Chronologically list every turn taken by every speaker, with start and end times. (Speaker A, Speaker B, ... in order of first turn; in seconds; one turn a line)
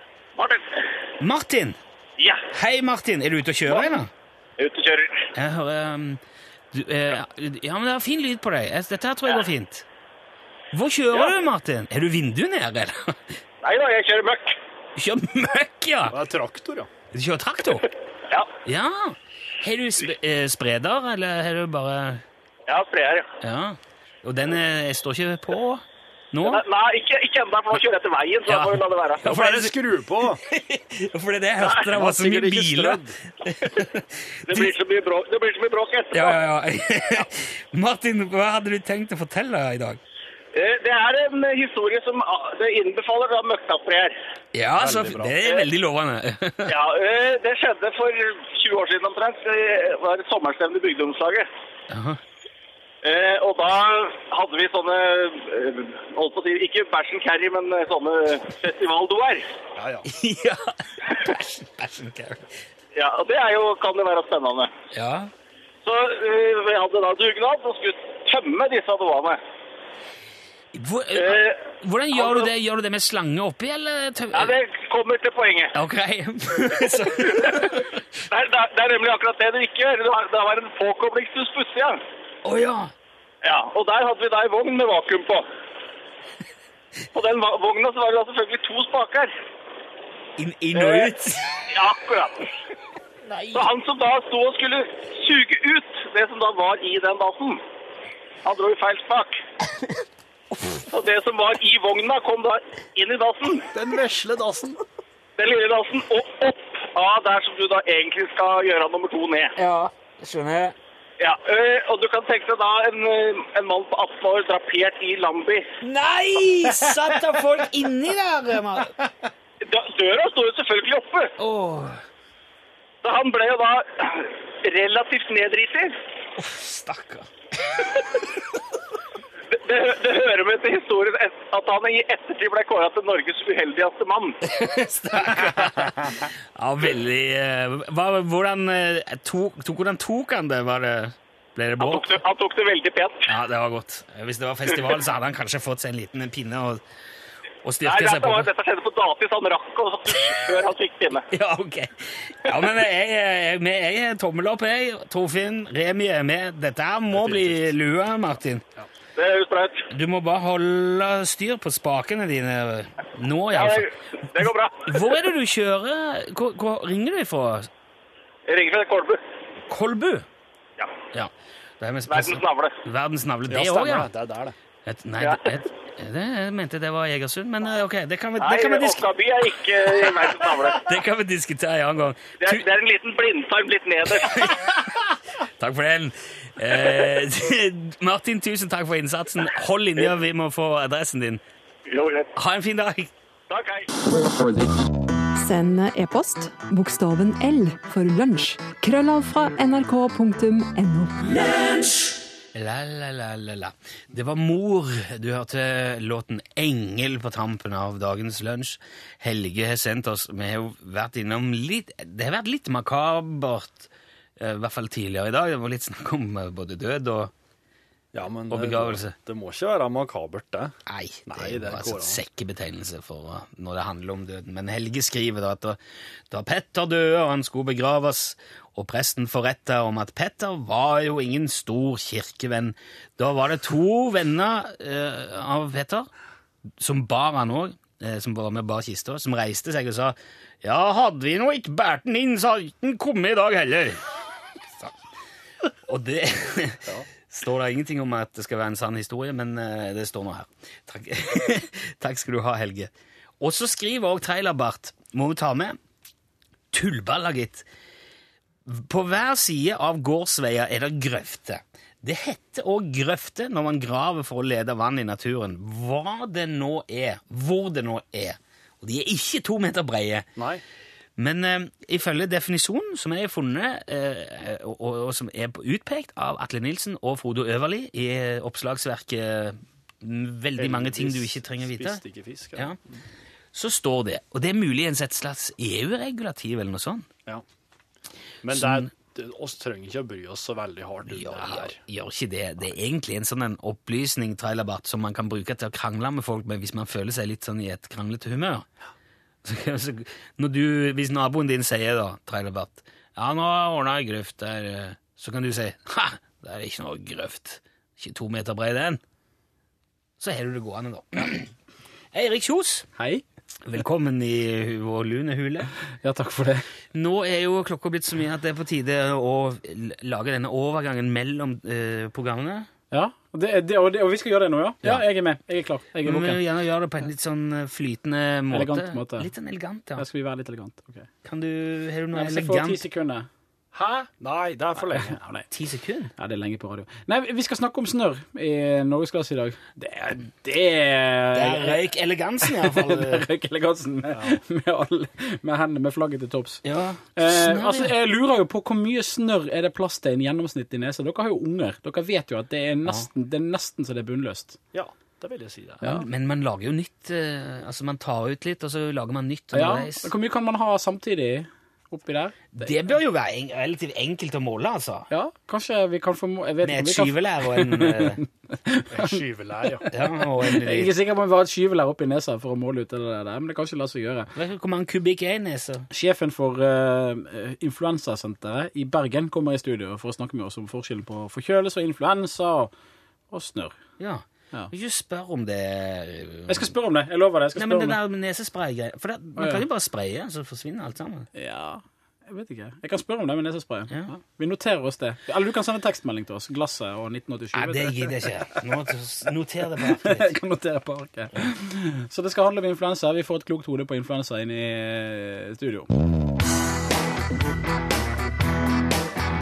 Speaker A: 0.4-0.7
Speaker B: 1.2-1.8
Speaker A: 2.2-2.5
Speaker B: 2.5-4.1
Speaker A: 4.6-5.3
Speaker B: 5.3-6.2
Speaker B: 6.7-9.9
Speaker B: 10.7-13.2
Speaker A: 13.6-14.6
Speaker B: 15.0-16.2
Speaker C: 16.1-16.9
Speaker B: 17.1-17.9
Speaker B: 18.6-22.2
Speaker A: 22.7-23.3
Speaker B: 23.4-26.6
Speaker A: 26.4-29.5
Speaker B: 28.5-29.7
Speaker C: 29.2-30.4
Speaker B: 30.5-34.7
Speaker A: 31.6-31.9
Speaker C: 31.9-33.2
Speaker A: 34.5-36.4
Speaker B: 36.1-40.0
Speaker A: 40.5-44.2
Speaker B: 44.5-46.8
Speaker C: 44.8-45.4
Speaker A: 46.7-51.5
Speaker B: 51.9-52.2
Speaker A: 53.0-59.5
Speaker C: 59.8-60.1
Speaker B: 60.1-62.5
Speaker A: 63.0-64.7
Speaker B: 64.9-65.3
Speaker A: 65.8-69.4
Speaker B: 70.7-74.5
Speaker A: 71.2-71.6
Speaker A: 72.1-72.5
Speaker A: 74.3-75.7
Speaker B: 75.8-78.0
Speaker A: 77.1-77.7
Speaker A: 78.3-82.0
Speaker B: 82.4-82.9
Speaker A: 83.4-85.5
Speaker A: 87.1-89.3
Speaker B: 90.4-91.5
Speaker A: 90.8-91.1
Speaker A: 91.7-92.5
Speaker B: 93.2-93.7
Speaker A: 93.5-97.6
Speaker A: 98.4-99.4
Speaker A: 100.9-103.7
Speaker C: 103.7-104.8
Speaker A: 105.4-109.5
Speaker B: 109.6-110.8
Speaker A: 111.2-115.7
Speaker B: 115.8-118.9
Speaker A: 119.7-121.3
Speaker B: 121.4-122.0
Speaker A: 123.0-125.9
Speaker B: 126.4-127.3
Speaker A: 129.5-134.4
Speaker B: 134.4-142.2
Speaker A: 141.8-143.3
Speaker B: 143.3-146.8
Speaker B: 147.6-148.5
Speaker A: 147.8-151.3
Speaker B: 150.2-150.5
Speaker B: 151.3-158.6
Speaker C: 157.1-157.7
Speaker A: 159.2-159.9
Speaker B: 159.9-163.9
Speaker A: 163.5-165.2
Speaker B: 164.8-167.7
Speaker A: 168.5-169.2
Speaker B: 169.7-170.2
Speaker B: 171.1-174.1
Speaker A: 172.1-172.7
Speaker C: 173.5-174.6
Speaker B: 174.8-179.1
Speaker A: 175.2-175.4
Speaker A: 178.4-181.0
Speaker B: 179.8-182.6
Speaker A: 182.4-184.6
Speaker B: 184.1-191.4
Speaker A: 191.9-192.3
Speaker B: 192.3-193.1
Speaker A: 193.5-193.9
Speaker D: 195.4-201.7
Speaker B: 202.5-217.3
Speaker C: 218.1-220.7
Speaker B: 218.5-219.2
Speaker B: 220.9-225.8
Speaker C: 221.3-222.2
Speaker B: 226.3-236.1
Speaker B: 236.8-244.0
Speaker B: 245.9-255.8
Speaker B: 256.7-257.6
Speaker B: 258.7-270.3
Speaker C: 270.4-270.6
Speaker B: 271.2-282.0
Speaker C: 280.6-282.7
Speaker B: 283.5-287.1
Speaker C: 288.4-291.8
Speaker B: 288.5-288.9
Speaker B: 291.1-298.7
Speaker B: 299.4-309.0
Speaker B: 310.2-311.5
Speaker B: 312.1-312.9
Speaker E: 313.0-313.2
Speaker B: 313.6-315.7
Speaker E: 316.0-316.7
Speaker B: 316.9-322.7
Speaker E: 322.9-326.4
Speaker B: 326.1-330.0
Speaker E: 328.5-329.3
Speaker E: 330.0-331.1
Speaker B: 331.2-332.8
Speaker E: 332.1-334.1
Speaker C: 334.1-335.2
Speaker E: 334.9-335.5
Speaker B: 335.5-336.1
Speaker E: 336.2-341.8
Speaker B: 341.3-343.2
Speaker E: 342.4-346.6
Speaker C: 344.1-344.4
Speaker B: 346.6-347.9
Speaker E: 347.1-354.6
Speaker C: 354.7-355.9
Speaker E: 355.8-356.1
Speaker B: 355.8-360.1
Speaker E: 359.5-362.7
Speaker B: 362.5-365.1
Speaker E: 365.1-369.9
Speaker B: 366.6-368.2
Speaker C: 368.9-369.9
Speaker B: 369.9-370.9
Speaker E: 370.4-374.3
Speaker B: 374.4-375.9
Speaker E: 375.9-382.7
Speaker E: 383.3-383.8
Speaker B: 384.0-386.7
Speaker E: 386.5-388.0
Speaker B: 387.6-391.3
Speaker E: 389.4-389.6
Speaker E: 391.4-398.6
Speaker B: 397.5-400.3
Speaker E: 399.8-406.0